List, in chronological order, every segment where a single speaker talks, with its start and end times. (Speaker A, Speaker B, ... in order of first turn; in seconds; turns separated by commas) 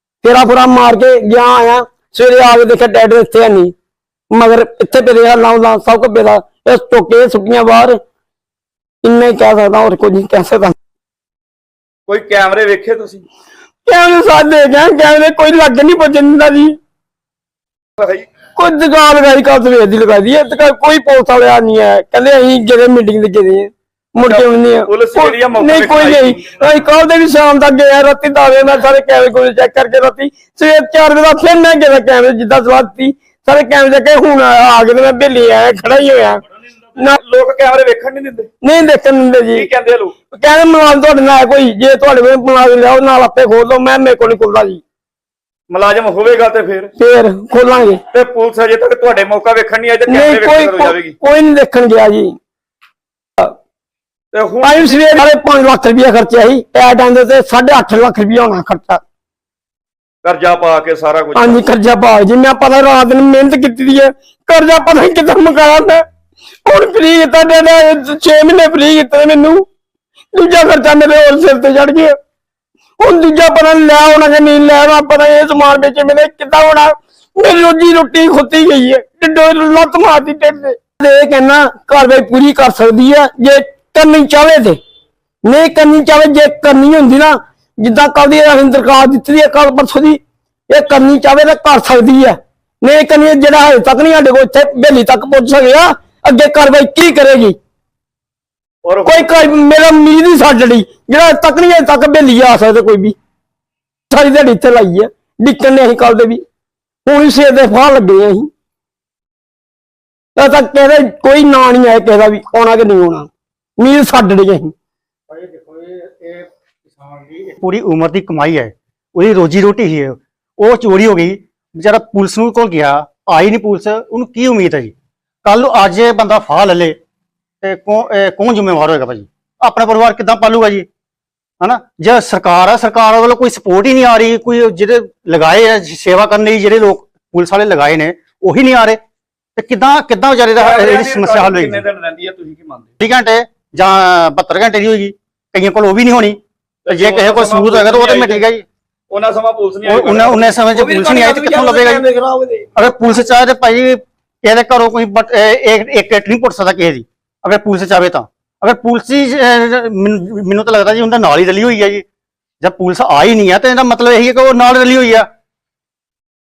Speaker A: 0.2-3.7, Speaker A: 4.3-8.0, Speaker A: 9.0-10.8, Speaker B: 12.1-13.2, Speaker A: 13.8-16.7, Speaker B: 18.0-18.3, Speaker A: 18.6-36.4, Speaker B: 24.2-26.6, Speaker B: 37.0-38.5, Speaker A: 38.6-39.7, Speaker B: 39.5-40.1, Speaker A: 40.3-44.8, Speaker B: 45.7-46.9, Speaker A: 47.0-48.0, Speaker B: 48.1-51.1, Speaker A: 50.1-52.3, Speaker B: 54.3-55.2, Speaker A: 54.6-59.0, Speaker B: 60.2-61.6, Speaker A: 61.3-66.0, Speaker A: 66.6-69.6, Speaker A: 70.3-72.1, Speaker A: 73.0-84.8, Speaker A: 85.4-97.5, Speaker B: 98.8-99.3, Speaker A: 99.0-103.1, Speaker A: 104.1-106.4, Speaker A: 107.0-108.5, Speaker A: 110.4-114.7, Speaker C: 115.3-124.9, Speaker C: 125.4-127.0, Speaker C: 127.6-130.9, Speaker C: 131.6-139.0, Speaker C: 139.6-141.8, Speaker B: 140.6-142.9, Speaker C: 143.0-148.6, Speaker B: 146.8-148.4, Speaker B: 149.1-150.6, Speaker C: 149.8-152.0, Speaker A: 152.0-152.6, Speaker C: 152.7-162.0, Speaker C: 162.6-165.2